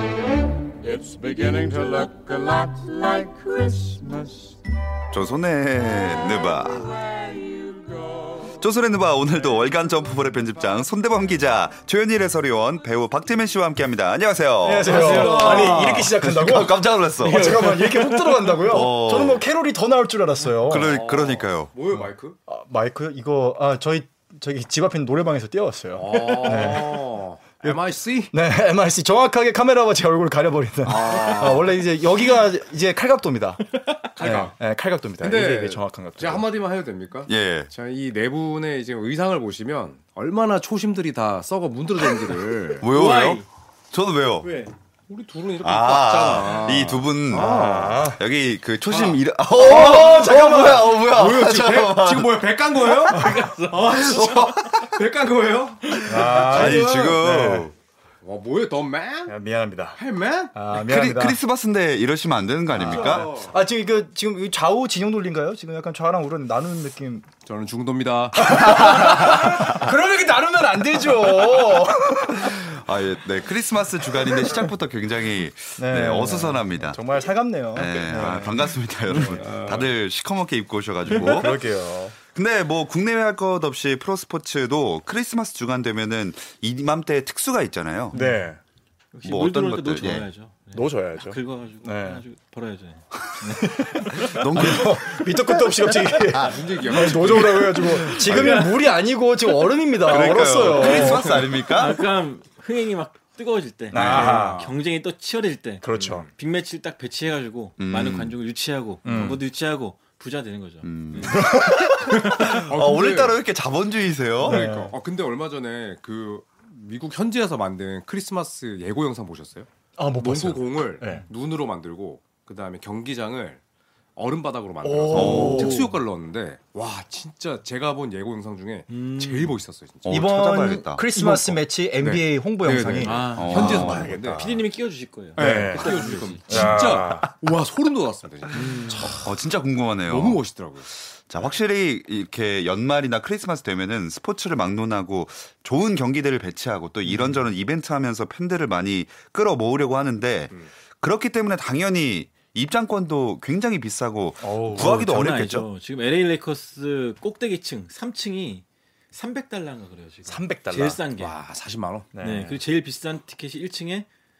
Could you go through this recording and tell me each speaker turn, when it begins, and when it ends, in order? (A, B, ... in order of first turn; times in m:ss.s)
0:00.8-0:04.6 A
0:05.1-0:07.0 B
0:07.0-0:08.5 A
0:08.6-0:17.8 B
0:14.6-0:20.9 C
0:14.8-0:16.1 D
0:14.8-0:16.0 E
0:17.2-0:18.6 E
0:18.6-0:19.4 B
0:20.6-0:21.7 B
0:20.7-0:22.4 D
0:21.9-0:27.1 C
0:25.9-0:28.3 D
0:28.3-0:36.5 C
0:30.8-0:31.8 D
0:34.1-0:34.5 D
0:35.2-0:42.8 D
0:37.3-0:37.7 B
0:42.8-0:44.5 B
0:42.8-0:43.4 E
0:44.4-0:44.7 E
0:45.1-0:48.1 D
0:45.6-0:52.4 B
0:47.3-0:48.2 C
0:48.9-0:57.2 D
0:49.6-0:51.0 C
0:52.9-0:54.7 E
0:56.0-0:57.7 C
0:56.4-0:57.7 B
0:58.2-0:59.4 D
0:59.3-1:00.0 C
0:59.9-1:00.6 D
1:00.5-1:01.4 C
1:00.7-1:03.3 B
1:02.7-1:03.6 D
1:02.8-1:07.3 C
1:07.4-1:09.6 D
1:08.4-1:12.8 C
1:12.4-1:17.0 B
1:15.8-1:18.6 C
1:17.7-1:21.8 B
1:19.3-1:19.9 D
1:21.1-1:22.1 C
1:21.1-1:21.4 E
1:22.3-1:28.1 B
1:28.1-1:28.6 C
1:28.1-1:28.4 E
1:29.1-1:34.8 E
1:29.2-1:30.3 B
1:30.7-1:32.2 C
1:33.6-1:41.6 C
1:34.2-1:35.2 B
1:36.3-1:36.6 B
1:36.4-1:37.8 D
1:37.2-1:38.6 B
1:38.1-1:38.8 E
1:40.0-1:42.0 B
1:40.4-1:51.4 E
1:40.7-1:41.1 D
1:43.9-1:44.7 C
1:44.0-1:44.7 D
1:45.8-1:46.3 C
1:47.8-1:48.3 B
1:49.0-1:49.4 C
1:50.8-1:54.6 B
1:51.3-1:52.4 C
1:52.3-1:53.4 D
1:54.4-1:54.9 C
1:54.4-2:03.6 D
2:00.0-2:01.2 C
2:04.2-2:14.4 D
2:04.8-2:05.9 C
2:05.1-2:05.8 B
2:05.1-2:05.9 E
2:08.9-2:09.6 E
2:10.0-2:11.1 B
2:10.1-2:14.4 C
2:13.0-2:16.9 E
2:13.3-2:14.6 B
2:15.4-2:17.2 C
2:15.4-2:19.1 D
2:18.6-2:19.1 E
2:19.0-2:20.4 B
2:20.1-2:20.9 D
2:21.2-2:35.7 B
2:34.4-2:34.9 C
2:34.8-2:41.3 E
2:40.3-2:41.0 C
2:41.2-2:42.1 D
2:42.1-2:42.6 C
2:42.2-2:44.1 E